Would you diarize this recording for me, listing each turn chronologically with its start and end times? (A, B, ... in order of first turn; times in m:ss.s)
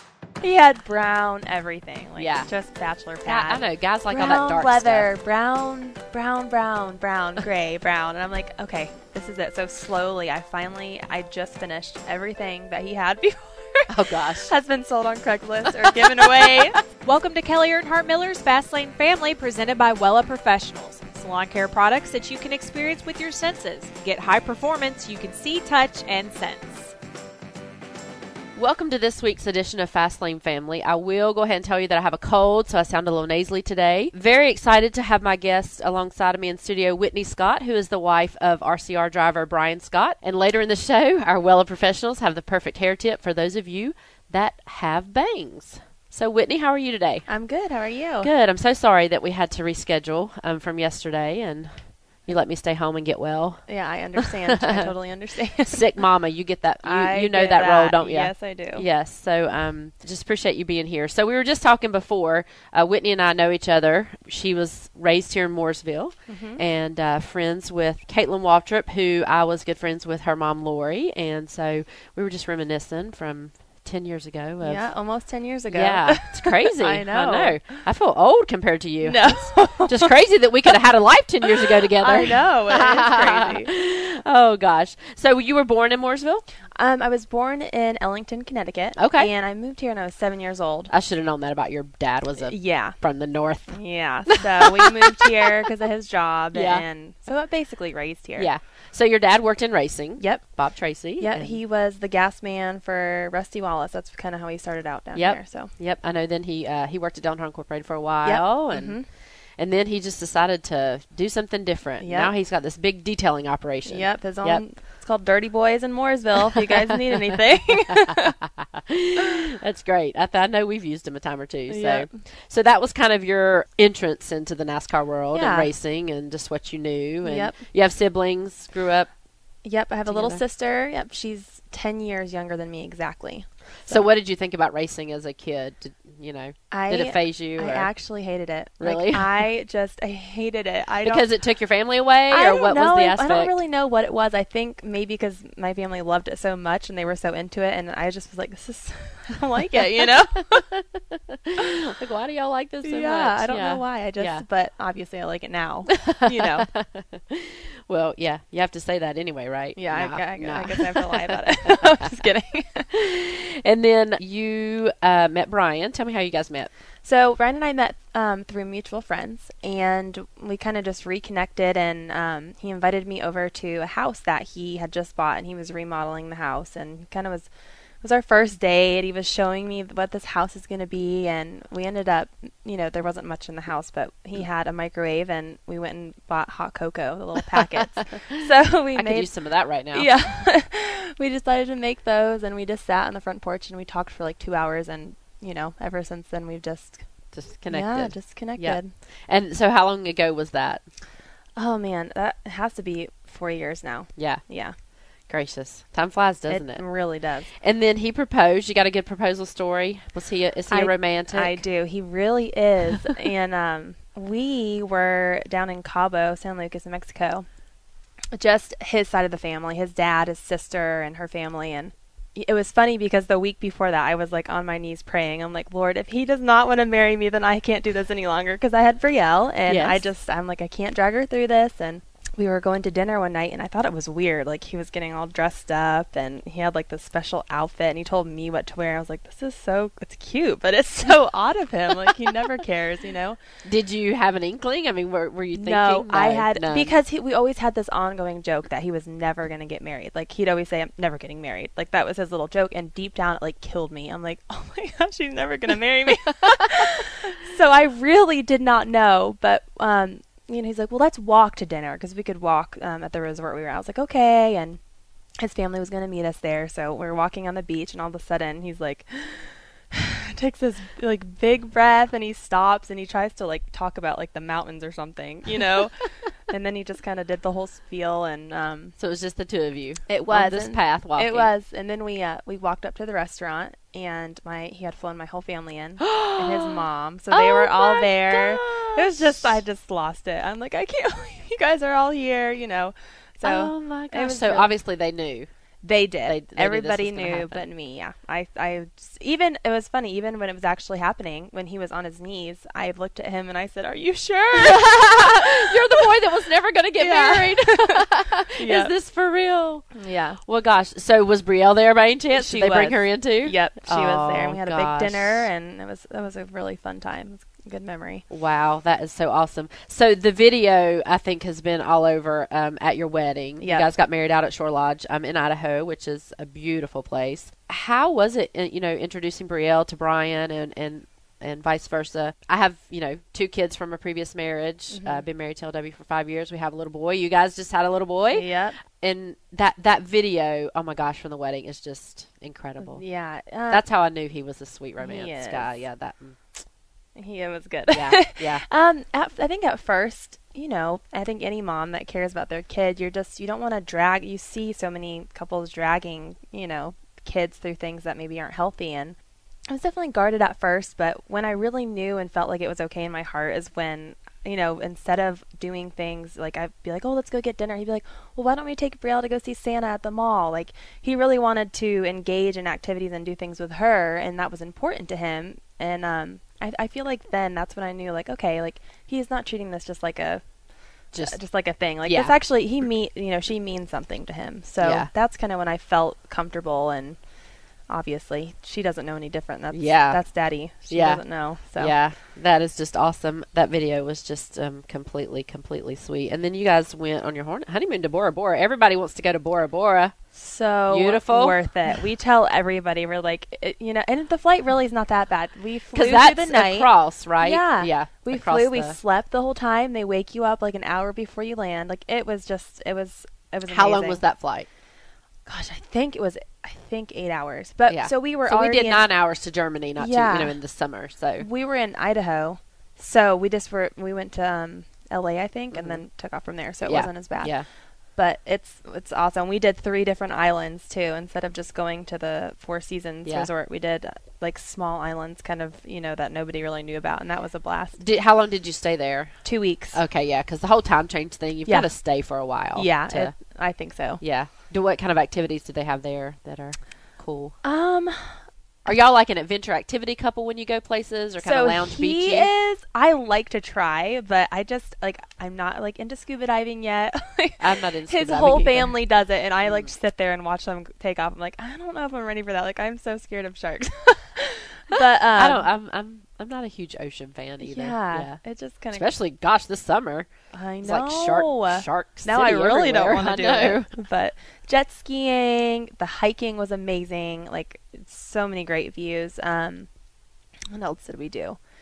0:00.4-0:16.8 A
0:02.2-0:02.5 B
0:03.2-0:05.1 B
0:13.9-0:14.5 B
0:15.7-0:16.8 B
0:17.0-0:26.9 C
0:28.6-0:47.3 B
0:47.3-0:48.3 A
0:48.2-0:53.7 B
0:53.7-0:55.9 A
0:54.2-0:54.9 B
0:55.7-1:15.0 B
0:56.8-0:58.8 A
1:06.3-1:06.6 A
1:14.6-1:17.6 A
1:15.7-1:26.4 B
1:19.0-1:20.1 A
1:21.8-1:23.7 A
1:26.8-1:30.9 A
1:29.0-1:29.3 B
1:30.9-1:35.7 B
1:32.4-1:33.0 A
1:33.7-1:38.5 A
1:36.5-1:36.8 B
1:38.4-1:41.6 B
1:40.2-1:40.4 A
1:41.2-1:45.7 A
1:45.2-1:54.6 B
1:48.2-1:49.1 A
1:52.0-1:52.3 A
1:53.9-1:58.4 A
1:56.5-1:57.4 B
1:58.1-2:09.1 B
2:01.7-2:02.2 A
2:05.3-2:05.7 A
2:07.2-2:07.6 A
2:09.6-2:14.1 A
2:10.1-2:10.4 B
2:13.9-2:17.9 B
2:16.7-2:21.3 A
2:18.8-2:19.5 B
2:21.0-2:23.6 B
2:22.3-2:30.7 A
2:30.6-2:34.4 B
2:32.8-2:36.7 A
2:35.9-2:42.0 B
2:39.8-2:42.9 A
2:42.9-2:46.7 B
2:47.0-2:57.5 A
2:58.0-3:09.3 A
3:08.9-3:10.3 B
3:09.9-3:17.1 A
3:17.3-3:20.9 B
3:17.7-3:18.9 A
3:21.6-3:24.8 A
3:24.2-3:24.4 B
3:25.3-3:26.9 B
3:26.5-3:27.5 A
3:27.5-3:31.6 B
3:30.7-3:37.5 A
3:38.3-4:03.4 A
3:49.7-3:50.0 B
4:03.6-4:07.0 B
4:05.6-4:24.8 A
4:25.4-4:39.0 A
4:39.0-4:41.5 B
4:40.1-4:54.7 A
4:46.0-4:49.5 B
4:53.4-4:55.5 B
4:55.8-5:06.1 A
4:56.3-4:57.6 B
5:04.5-5:15.5 B
5:07.0-5:08.9 A
5:09.9-5:10.4 A
5:12.3-5:18.2 A
5:18.3-5:43.0 B
5:23.6-5:23.9 A
5:34.9-5:35.2 A
5:38.3-5:38.8 A
5:42.8-5:43.8 A
5:43.7-5:46.4 B
5:45.0-5:45.8 A
5:47.2-5:59.2 A
5:47.9-5:48.6 B
5:59.7-6:20.4 A
6:21.1-6:21.4 B
6:21.2-6:27.2 A
6:22.0-6:22.3 B
6:24.8-6:25.1 B
6:27.9-6:32.0 A
6:29.7-6:30.2 B
6:30.9-6:40.2 B
6:40.3-6:54.2 A
6:40.9-6:41.6 B
6:45.9-6:49.0 B
6:53.7-6:54.7 B
6:55.5-6:59.1 A
6:57.9-7:01.5 B
7:00.0-7:00.6 A
7:01.4-7:07.6 A
7:05.7-7:06.0 B
7:06.8-7:07.7 B
7:08.2-7:18.0 A
7:13.2-7:13.5 B
7:18.0-7:23.4 B
7:19.4-7:20.0 A
7:21.7-7:22.2 A
7:22.7-7:24.2 A
7:24.2-7:27.6 B
7:27.6-7:29.0 A
7:28.9-7:32.5 B
7:31.4-7:45.7 A
7:37.6-7:39.0 B
7:39.6-7:39.9 B
7:45.4-7:48.4 B
7:47.6-7:49.1 A
7:48.9-7:50.3 B
7:50.5-7:59.9 A
7:50.8-7:53.9 B
8:00.7-8:01.6 A